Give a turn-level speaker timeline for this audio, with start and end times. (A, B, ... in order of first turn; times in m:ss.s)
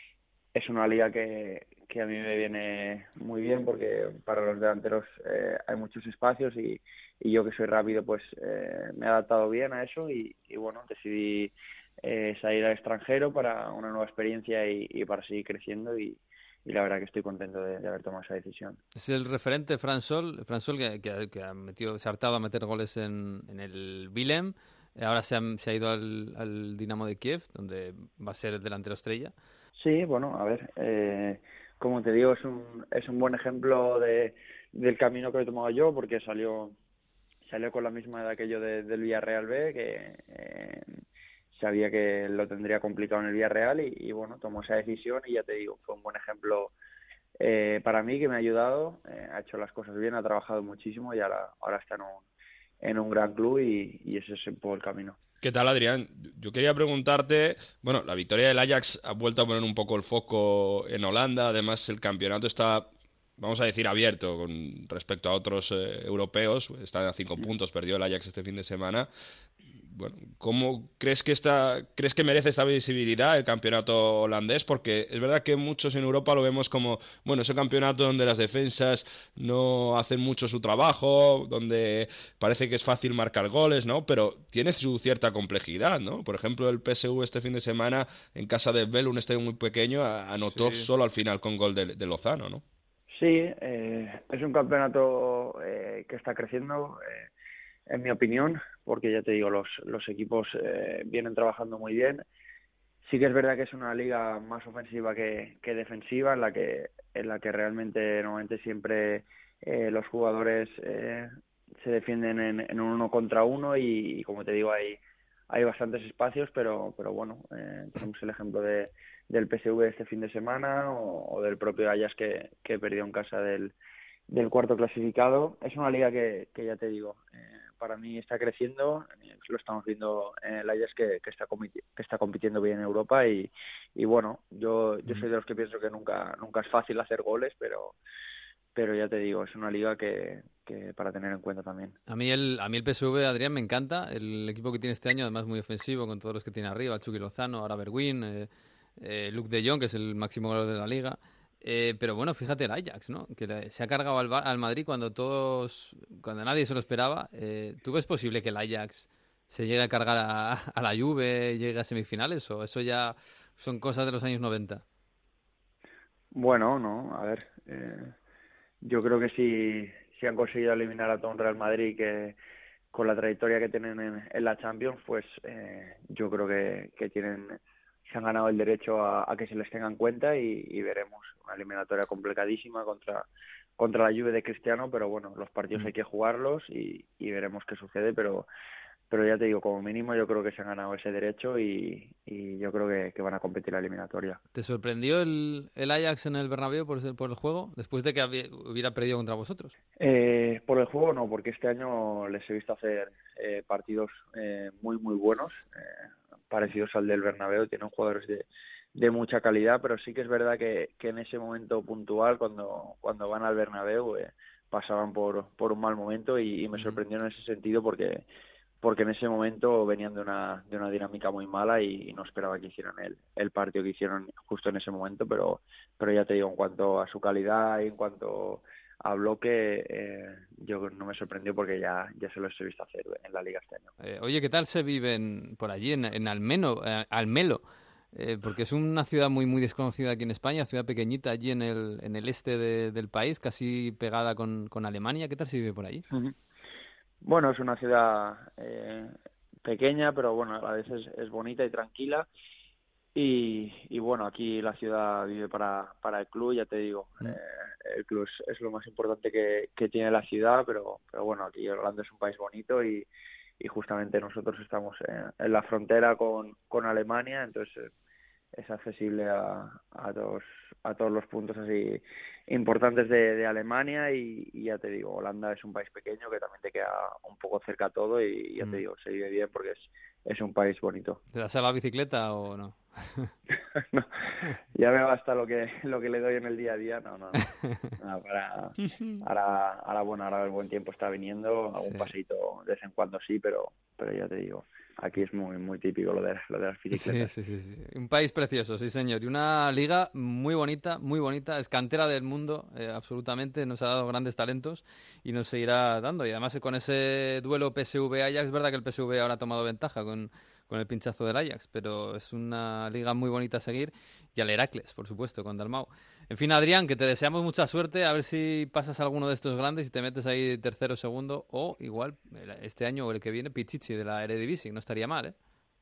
0:00.6-0:18.8 A
0:19.0-0:29.3 B
0:29.8-0:36.8 A
0:37.5-0:40.9 A
0:41.5-0:46.7 A
0:47.4-0:52.2 A
0:52.8-0:55.2 A
0:55.4-1:09.1 C
1:09.9-1:32.6 C
1:30.4-1:30.9 B
1:33.2-1:37.3 A
1:37.9-1:42.2 A
1:43.1-1:51.3 A
1:51.8-1:55.0 A
1:55.5-2:03.8 A
2:04.3-2:18.0 A
2:18.8-2:22.0 A
2:22.1-2:28.5 B
2:29.0-2:44.8 B
2:46.4-2:48.1 A
2:48.8-2:52.4 A
2:52.9-3:08.5 A
3:09.1-3:14.4 A
3:14.6-3:19.7 B
3:20.0-3:25.7 A
3:26.5-3:38.2 A
3:38.8-3:53.9 A
3:54.0-3:57.6 B
3:58.2-4:06.0 B
4:07.2-4:09.1 A
4:09.6-4:12.3 A
4:13.2-4:23.1 A
4:23.6-4:27.9 A
4:28.6-4:41.2 A
4:41.3-4:43.3 B
4:44.8-4:47.5 A
4:47.6-4:47.9 B
4:48.0-4:57.3 A
4:51.8-4:52.1 B
4:56.9-5:25.4 B